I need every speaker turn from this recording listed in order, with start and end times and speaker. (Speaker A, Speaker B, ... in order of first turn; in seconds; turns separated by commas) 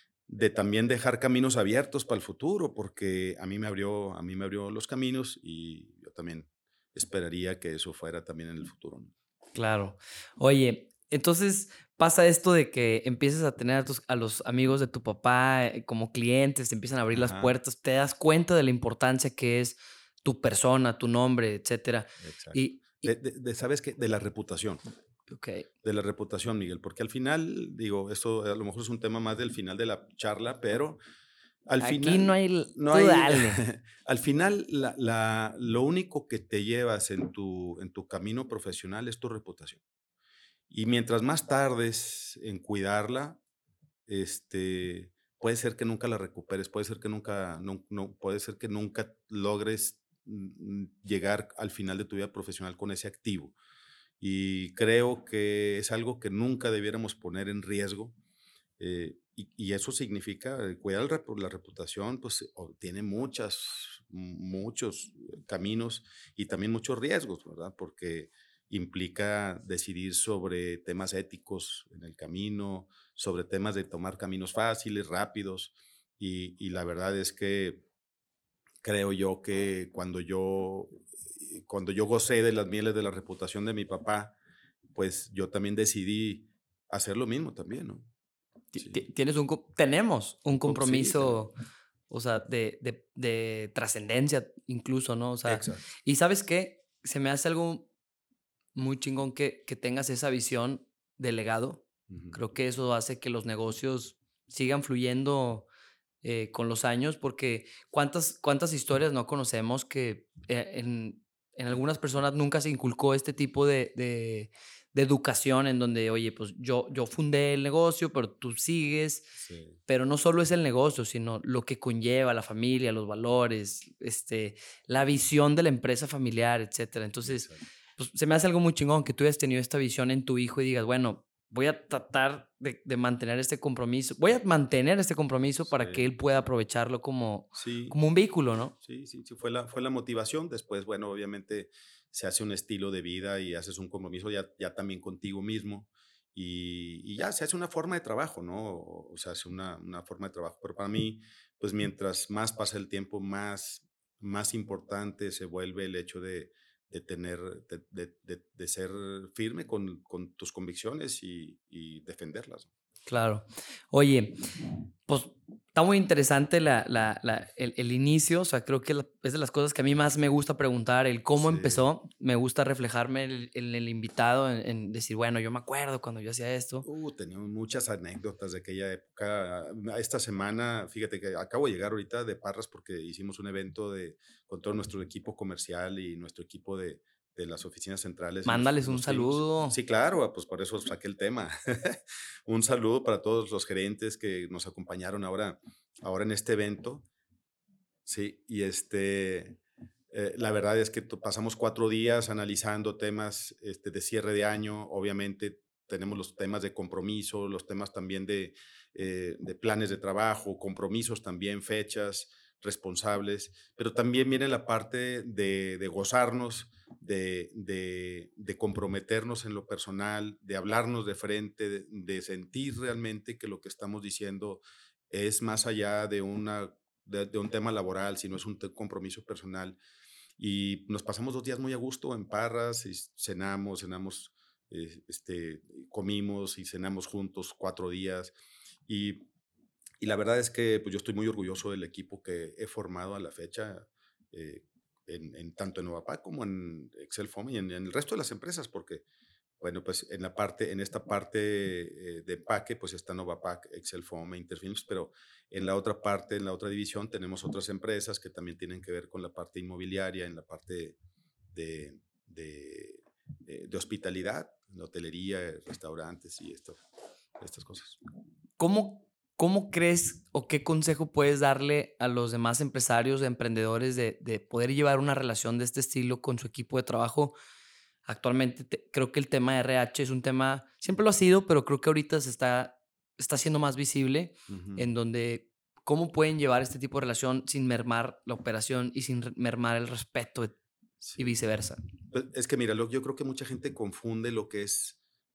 Speaker A: 0.3-9.1, Speaker B: 9.5-23.1, Speaker A: 17.1-17.5, Speaker A: 22.2-24.8, Speaker B: 25.3-25.7, Speaker A: 25.8-31.0, Speaker A: 31.7-39.8, Speaker B: 31.8-33.6, Speaker A: 40.7-43.4, Speaker A: 44.1-53.5, Speaker A: 54.2-58.1, Speaker A: 58.8-77.8, Speaker A: 78.8-84.3, Speaker A: 84.9-88.1, Speaker B: 88.7-91.5, Speaker A: 90.6-91.5, Speaker B: 92.1-97.9, Speaker A: 95.5-95.8, Speaker B: 98.7-105.7, Speaker A: 102.1-102.4, Speaker B: 106.2-138.7, Speaker A: 119.4-119.8, Speaker A: 127.2-127.6, Speaker A: 135.6-136.1, Speaker A: 137.5-138.0, Speaker A: 138.8-162.7, Speaker B: 163.1-164.4, Speaker B: 165.1-176.8, Speaker A: 171.4-171.8, Speaker A: 176.8-197.1, Speaker B: 188.4-189.8, Speaker A: 198.1-199.6, Speaker A: 200.1-229.8, Speaker A: 230.4-238.3, Speaker A: 238.9-239.2, Speaker A: 240.0-249.0, Speaker A: 249.6-260.9, Speaker A: 261.5-266.8, Speaker A: 267.4-268.0, Speaker B: 268.6-277.4, Speaker B: 278.1-290.6, Speaker A: 284.5-284.9, Speaker B: 291.2-291.8, Speaker A: 292.1-295.0